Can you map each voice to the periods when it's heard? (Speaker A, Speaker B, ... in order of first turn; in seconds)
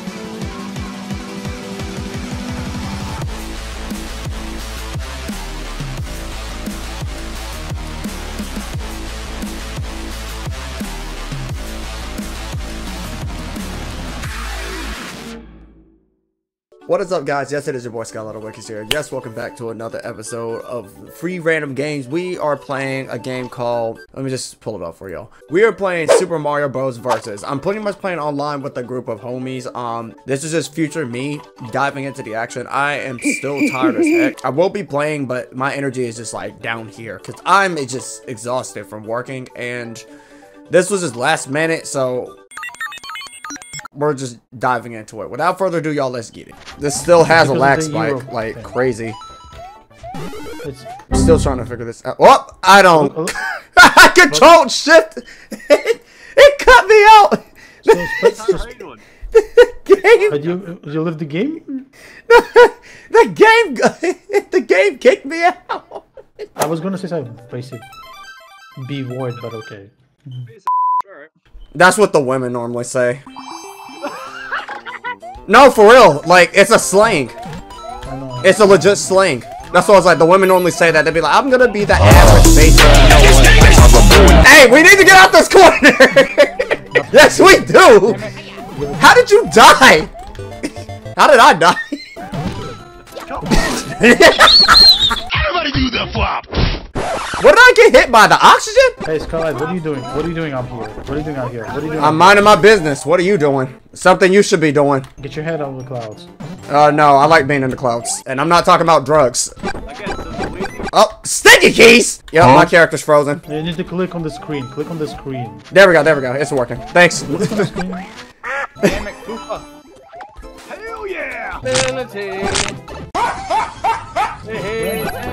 Speaker A: 16.9-40.0, 40.7-42.4, 43.9-49.2, 51.1-58.4, 59.3-60.4, 62.3-66.1, 71.7-73.2, 75.5-77.3, 78.4-88.3, 89.0-90.1, 91.2-92.0, 93.5-95.0, 97.4-99.0, 102.0-105.1, 106.7-109.5, 110.9-113.4, 115.7-117.7
Speaker B: 47.2-48.8, 50.6-50.9, 52.9-53.4, 54.3-54.6, 57.9-58.8, 60.3-61.9, 66.5-67.8, 68.8-70.5, 78.0-78.9, 83.9-85.2, 86.9-88.2, 88.7-89.2, 99.0-102.5, 105.2-106.3, 113.5-115.7, 117.3-118.1, 124.7-125.1
Speaker C: 58.2-59.0, 59.9-60.5, 70.5-71.3, 93.2-93.9, 101.8-102.2, 109.8-110.9, 120.7-121.6
Speaker D: 118.8-119.6, 121.6-122.8, 124.4-125.2